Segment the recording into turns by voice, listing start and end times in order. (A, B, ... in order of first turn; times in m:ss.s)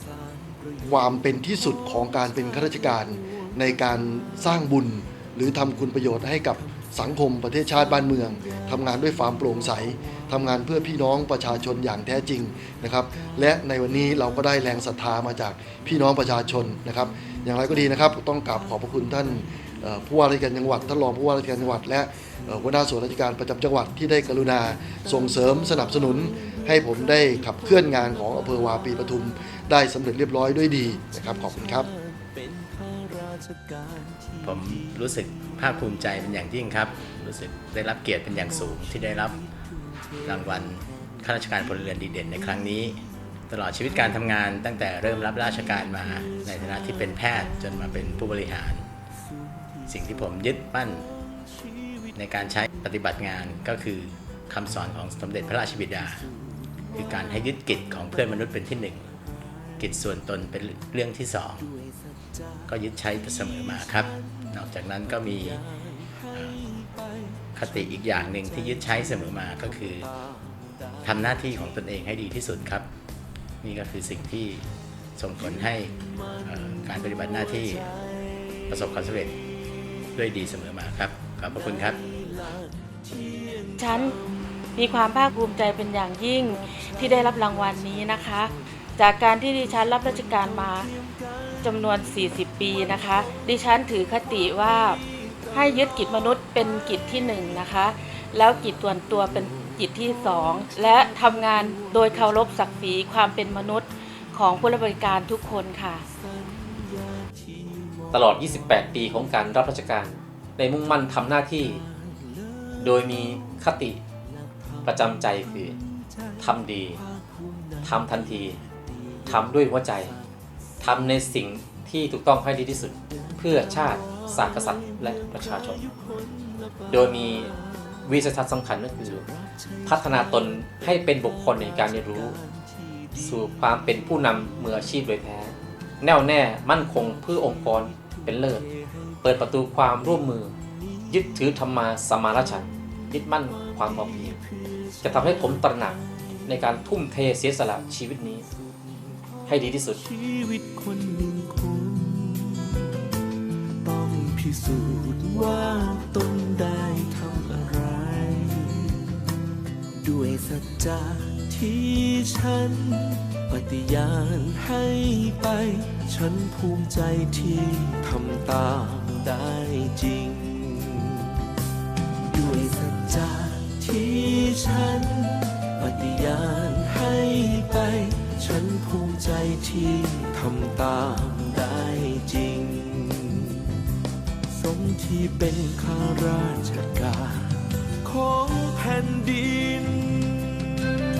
0:00.1-0:00.8 A
0:00.8-0:31.9 B
0:32.0-0:34.9 A
0:34.4-0:39.4 C
0:40.2-0:48.9 C
0:49.9-0:51.1 C
0:52.2-0:56.3 C
0:56.9-0:59.1 C
0:59.8-1:01.7 C
1:01.8-1:02.6 A
1:02.7-1:05.6 C
1:06.3-1:06.6 C
1:06.7-1:07.5 A
1:07.6-1:10.1 C
1:11.0-1:12.9 C
1:13.6-1:17.9 C
1:18.1-1:18.5 A
1:18.7-1:19.4 C
1:20.1-1:22.0 C
1:21.6-1:23.8 A
1:23.8-1:24.2 D
1:24.8-1:30.9 D
1:31.6-1:35.0 D
1:35.5-1:46.0 D
1:46.4-1:48.1 A
1:48.1-1:51.8 E
1:52.0-1:52.8 A
1:52.8-1:54.0 E
1:54.8-1:55.8 E
1:56.4-1:57.0 E
1:57.2-1:57.8 A
1:57.8-1:58.6 E
1:59.3-2:00.2 E
2:00.8-2:05.8 E
2:05.8-2:06.9 A
2:06.9-2:09.3 E
2:09.5-2:09.8 A
2:09.8-2:12.4 E
2:12.4-2:13.1 A
2:13.2-2:18.7 E
2:19.2-2:20.5 E
2:21.1-2:24.4 E
2:25.0-2:28.4 E
2:29.5-2:30.0 E
2:30.1-2:33.0 A
2:33.8-2:39.2 A
2:40.0-2:51.4 A
2:52.2-3:03.7 A
3:04.5-3:10.7 A